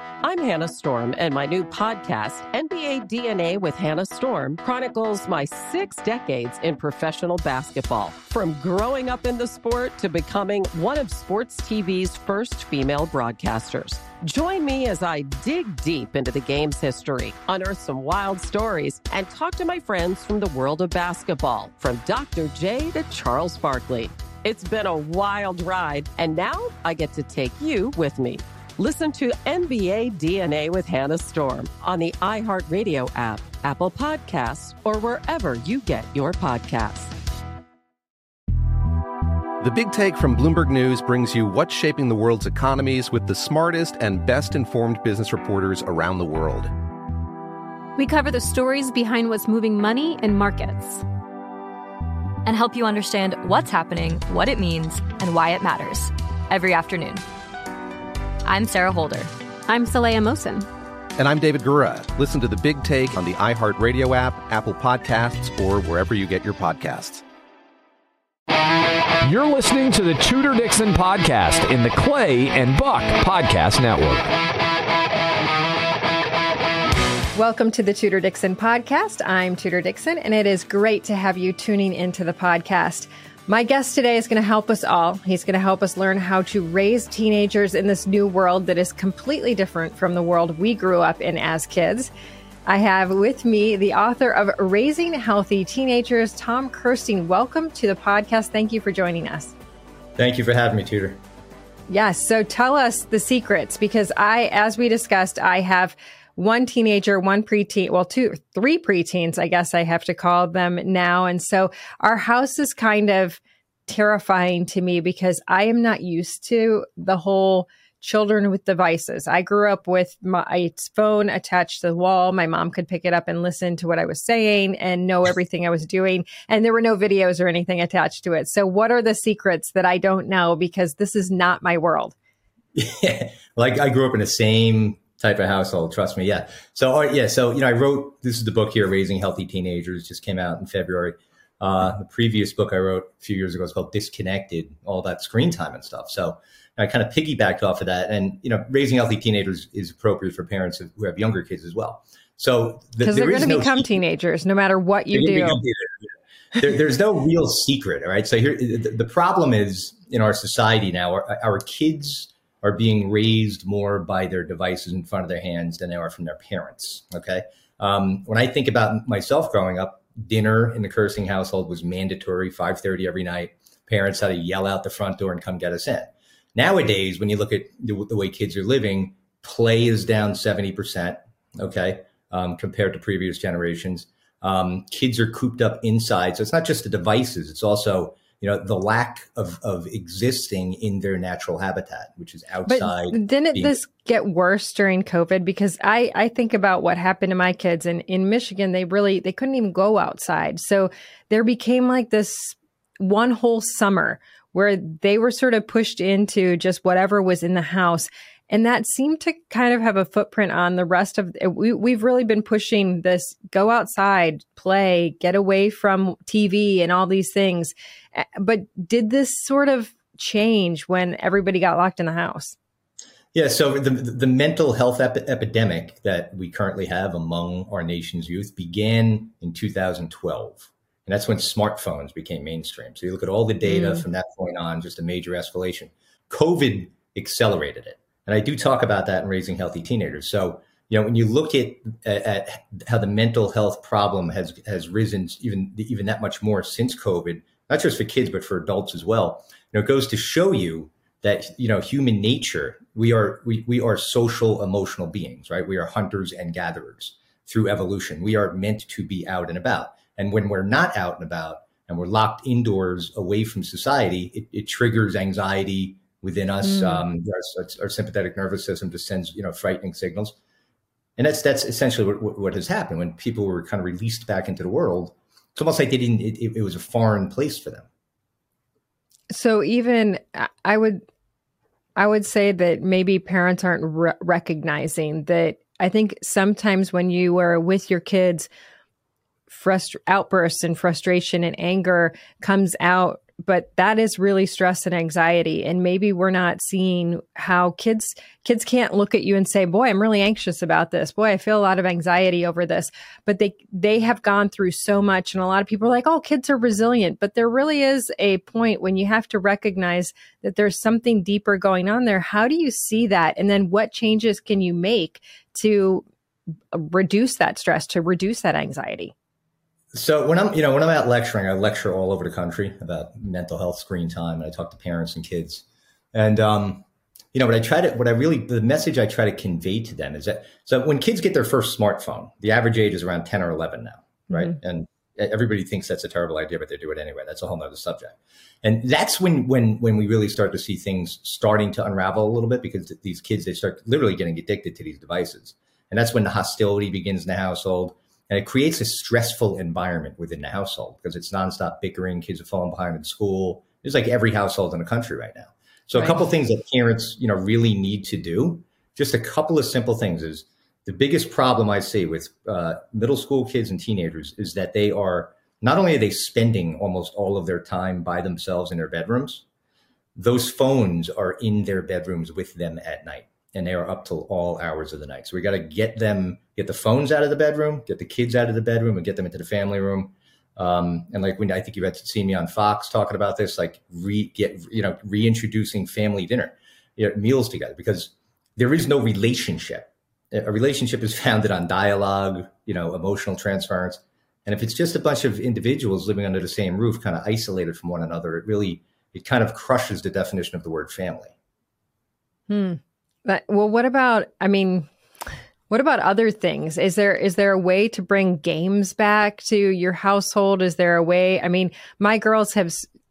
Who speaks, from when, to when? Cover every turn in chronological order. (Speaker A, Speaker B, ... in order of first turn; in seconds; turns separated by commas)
Speaker A: 0.2-37.1, Speaker B: 39.6-46.7, Speaker C: 48.0-51.0, Speaker D: 52.4-57.2, Speaker D: 58.4-59.3, Speaker C: 59.7-60.7, Speaker B: 61.2-67.2, Speaker E: 69.2-74.3, Speaker F: 77.3-92.1, Speaker F: 92.7-99.5, Speaker G: 100.2-101.2, Speaker F: 101.9-132.1, Speaker G: 132.7-154.0, Speaker F: 153.0-155.6, Speaker G: 155.1-193.8, Speaker F: 192.7-222.6, Speaker G: 223.3-270.4, Speaker F: 233.6-234.0, Speaker F: 266.6-267.0, Speaker G: 271.2-277.9, Speaker F: 279.3-281.0, Speaker F: 281.9-288.5, Speaker F: 289.5-316.0, Speaker F: 316.7-319.1, Speaker G: 319.9-369.4, Speaker F: 355.9-356.3, Speaker G: 370.1-401.3, Speaker F: 402.5-404.9, Speaker F: 405.7-412.9